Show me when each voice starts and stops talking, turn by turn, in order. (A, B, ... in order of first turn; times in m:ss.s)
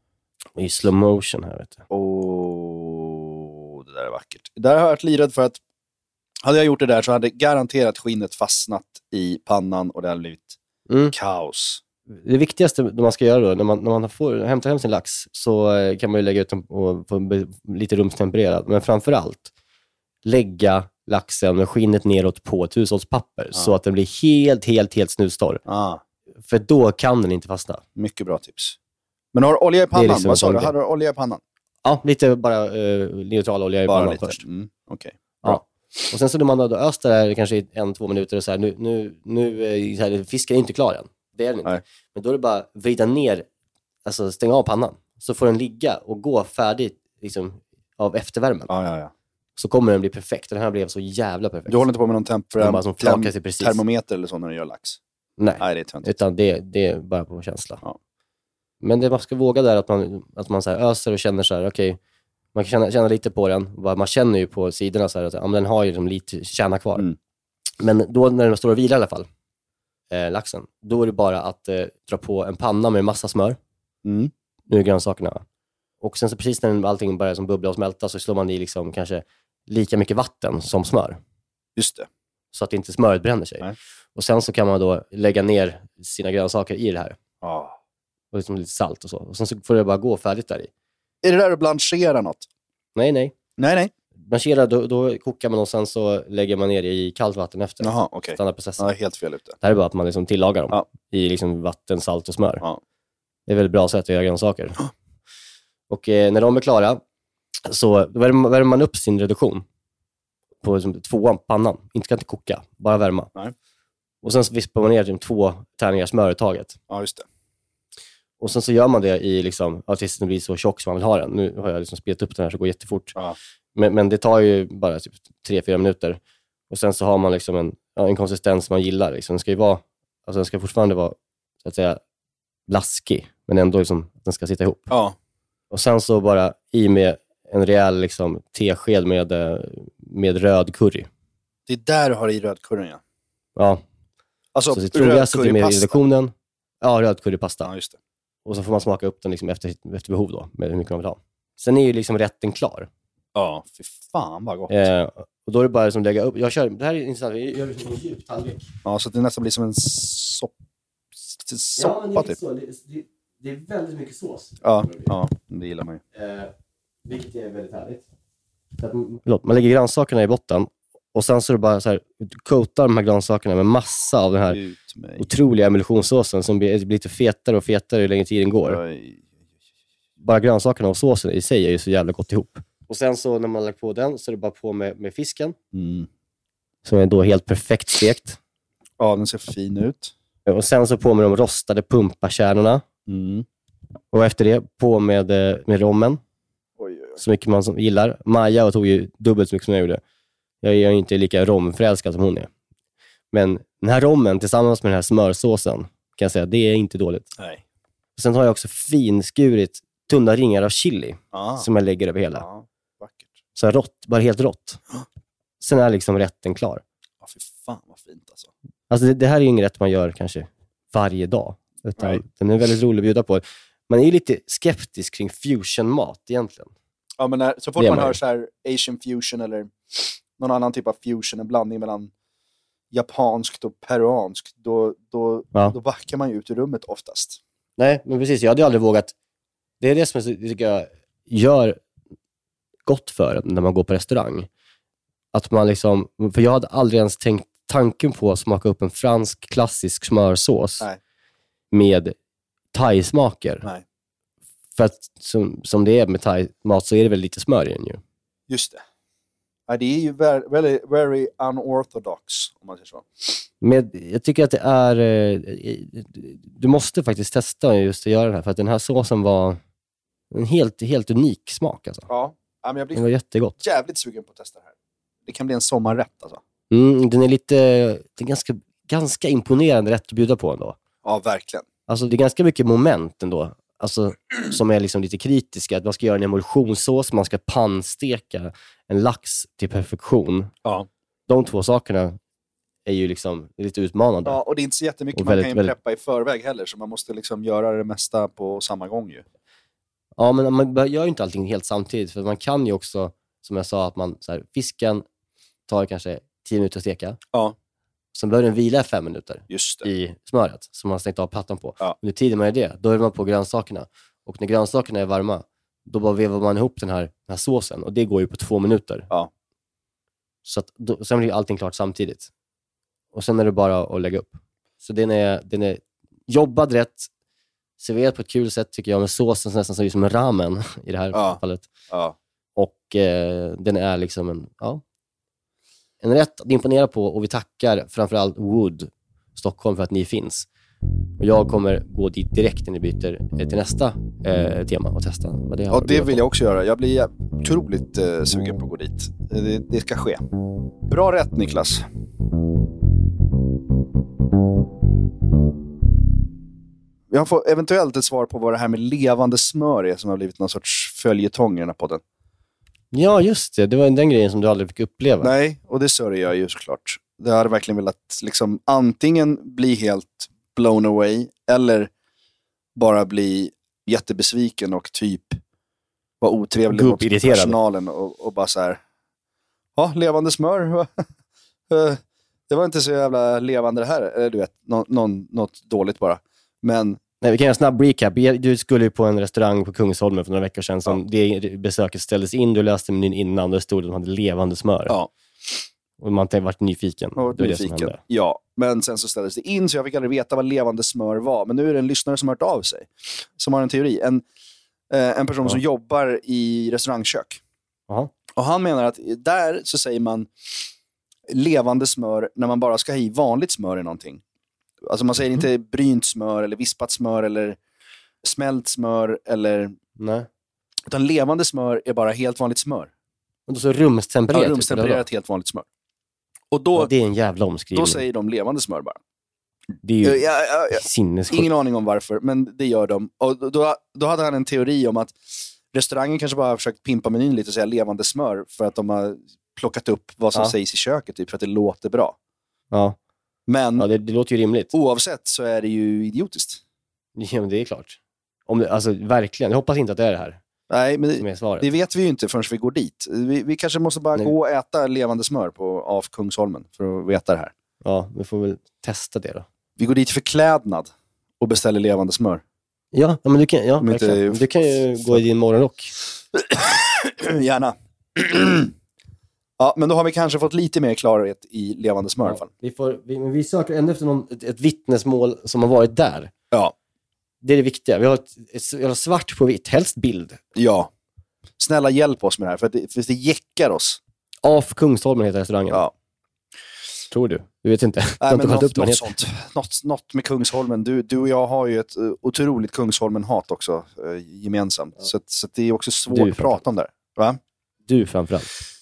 0:00.6-0:01.8 A
0:01.9-0:05.6 B
0:06.4-0:10.6 B
0:10.9-0:11.1 A
0:11.1-0:11.8 B
0:12.1-0:19.5 A
0:20.2-0:25.6 A
0:25.6-0:26.0 B
0:26.5-0:27.8 A
0:28.0-0:28.8 B
0:29.3-0:31.4 B
0:29.9-0:30.7 A
0:31.8-0:34.4 A
0:33.9-0:35.6 B
0:35.4-0:43.4 A
0:44.0-0:48.7 A
0:48.7-0:49.1 B
0:49.6-0:51.9 A
0:51.7-0:55.0 B
0:52.5-0:53.8 A
0:55.4-0:57.8 A
0:55.6-0:56.1 B
0:58.8-1:02.0 A
1:02.5-1:07.1 A
1:07.8-1:09.3 A
1:10.1-1:13.6 A
1:14.0-1:14.3 B
1:14.7-1:15.4 A
1:16.0-1:21.2 A
1:21.8-1:22.1 B
1:22.5-1:27.2 A
1:27.4-1:27.8 B
1:28.3-1:30.7 A
1:31.2-1:32.5 B
1:32.9-1:33.3 A
1:33.6-1:33.9 B
1:34.3-1:38.9 A
1:37.8-1:39.6 B
1:39.6-1:42.6 A
1:43.5-1:44.8 A
1:45.9-1:47.0 A
1:47.6-1:49.6 A
1:50.6-1:53.3 A
1:54.2-1:56.8 A
1:56.9-1:57.2 B
1:58.4-2:03.2 A
2:03.7-2:12.0 A
2:12.7-2:14.9 A
2:14.9-2:15.2 B
2:15.7-2:21.1 A
2:21.7-2:23.0 B
2:23.6-2:23.8 A
2:24.5-2:26.0 B
2:24.7-2:27.7 A
2:27.6-2:28.0 B
2:28.4-2:32.9 A
2:33.3-2:34.9 B
2:34.7-2:38.7 A
2:38.8-2:40.5 B
2:41.3-2:42.4 B
2:41.8-2:45.1 A
2:44.6-2:46.0 B
2:46.1-2:46.5 A
2:47.0-2:48.0 A
2:48.8-2:54.6 A
2:54.5-2:55.3 B
2:55.2-2:58.8 A
2:58.6-2:59.3 B
3:00.2-3:05.6 A
3:05.7-3:06.1 B
3:06.8-3:08.4 A
3:09.0-3:10.1 B
3:10.4-3:12.8 A
3:13.1-3:13.4 B
3:14.1-3:16.2 A
3:16.8-3:17.2 B
3:17.2-3:20.0 A
3:20.6-3:22.5 A
3:23.3-3:27.3 A
3:28.2-3:32.4 A
3:31.3-3:31.7 B
3:32.3-3:33.4 B
3:33.6-3:34.8 A
3:35.6-3:36.8 A
3:37.2-3:38.5 B
3:38.9-3:46.7 A
3:47.2-3:52.1 B
3:47.8-3:48.2 A
3:52.9-3:57.4 B
3:57.8-3:59.1 A
3:59.8-4:01.8 A
4:02.8-4:04.5 A
4:05.3-4:10.9 A
4:11.7-4:12.1 A
4:12.7-4:13.6 A
4:14.8-4:18.0 A
4:18.5-4:18.8 B
4:19.7-4:23.3 B
4:23.6-4:29.6 A
4:30.3-4:32.1 A
4:32.1-4:33.0 B
4:32.9-4:33.6 A
4:33.6-4:34.7 B
4:35.2-4:36.4 B
4:36.7-4:40.8 A
4:41.0-4:41.7 B
4:41.9-4:50.5 A
4:51.3-4:52.2 A
4:52.8-4:54.4 A
4:54.2-4:59.2 B
4:55.1-4:55.7 A
5:00.2-5:05.0 A
5:05.7-5:07.2 A
5:08.1-5:19.1 A
5:09.5-5:09.9 B
5:20.4-5:22.3 A
5:23.1-5:27.1 A
5:27.8-5:31.7 A
5:31.1-5:32.2 B
5:32.6-5:34.8 A
5:36.0-5:40.5 A
5:41.2-5:46.2 A
5:45.7-5:50.2 B
5:50.9-5:51.9 B
5:57.1-6:02.0 B
6:02.9-6:05.3 A
6:05.2-6:11.9 B
6:12.7-6:15.4 B
6:16.2-6:18.8 B
6:16.7-6:17.6 A
6:19.8-6:21.0 B
6:21.7-6:27.0 B
6:27.2-6:35.0 A
6:36.0-6:38.0 A
6:37.2-6:44.2 B
6:44.9-6:47.4 B
6:48.4-6:50.3 B
6:51.3-6:54.2 B
6:54.8-6:57.6 B
6:58.2-6:59.7 B
7:00.0-7:00.3 A
7:00.9-7:02.9 B
7:03.5-7:05.0 A
7:04.3-7:05.6 B
7:06.5-7:06.9 B
7:06.7-7:08.0 A
7:07.7-7:09.0 B
7:09.8-7:11.5 A
7:10.0-7:15.2 B
7:15.7-7:22.2 B
7:22.7-7:23.0 A
7:23.5-7:23.9 B
7:23.8-7:24.7 A
7:24.7-7:26.6 B
7:27.2-7:30.4 A
7:30.7-7:37.5 B
7:31.2-7:31.7 A
7:37.8-7:39.4 A
7:39.8-7:40.9 B
7:41.4-7:42.4 B
7:42.9-7:45.9 A
7:43.8-7:45.2 B
7:46.3-7:48.7 B
7:49.6-7:52.5 B
7:52.2-7:56.3 A
7:57.4-8:00.4 A
8:00.6-8:00.9 B
8:01.6-8:04.0 B
8:04.4-8:05.8 A
8:07.1-8:09.1 A
8:08.2-8:17.4 B
8:16.1-8:16.6 A
8:17.9-8:18.5 A